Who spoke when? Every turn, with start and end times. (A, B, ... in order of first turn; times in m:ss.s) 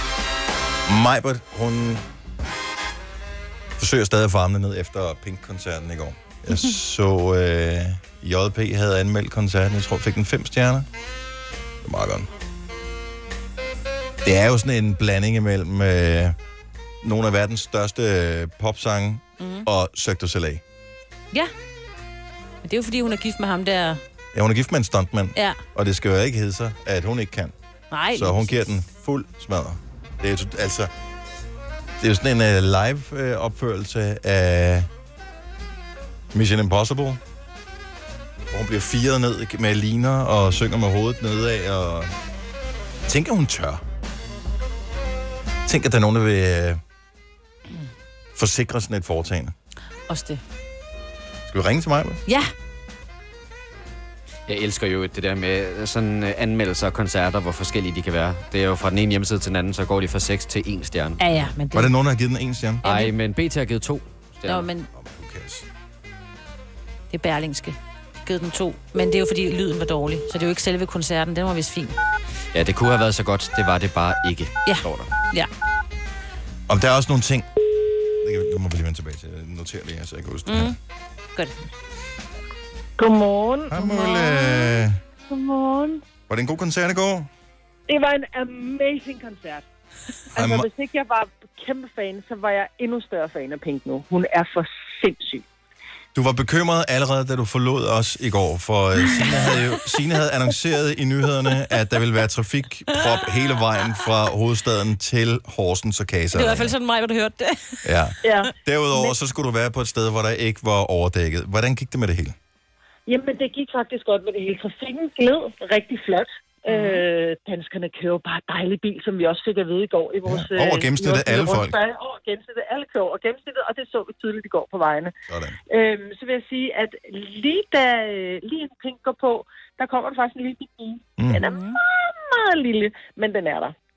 0:00.9-0:02.0 A
0:03.8-0:10.9 A
0:11.8-0:12.3 A
0:14.2-0:16.4 A
0:17.0-0:20.6 A
0:19.4-0:19.7 B
0:22.6-0:24.0 B
0:24.3-0:27.5 A
0:27.9-0:28.4 B
0:28.1-0:30.9 A
0:32.0-0:34.9 A
0:36.3-0:37.2 A
0:38.5-0:42.1 A
0:43.0-0:43.8 A
0:45.6-0:46.8 A
0:48.3-0:49.5 A
0:50.1-0:50.4 B
0:51.5-0:52.2 A
0:54.4-1:01.2 C
1:01.2-1:01.9 B
1:01.7-1:02.8 A
1:02.8-1:03.1 B
1:02.8-1:04.7 C
1:04.4-1:04.9 B
1:04.9-1:05.6 A
1:07.1-1:12.0 B
1:12.5-1:15.1 C
1:14.6-1:15.5 B
1:16.7-1:17.5 A
1:18.2-1:20.7 A
1:20.5-1:20.7 B
1:23.0-1:26.0 D
1:23.7-1:25.0 A
1:26.3-1:27.3 A
1:27.9-1:29.6 D
1:30.3-1:30.7 A
1:30.3-1:35.4 D
1:36.1-1:46.7 A
1:46.3-1:47.8 B
1:47.8-1:52.3 A
1:48.2-1:49.1 D
1:53.1-2:05.1 D
1:56.7-1:57.0 B
2:00.2-2:01.8 A
2:05.3-2:05.6 A
2:05.7-2:13.7 D
2:11.4-2:11.8 B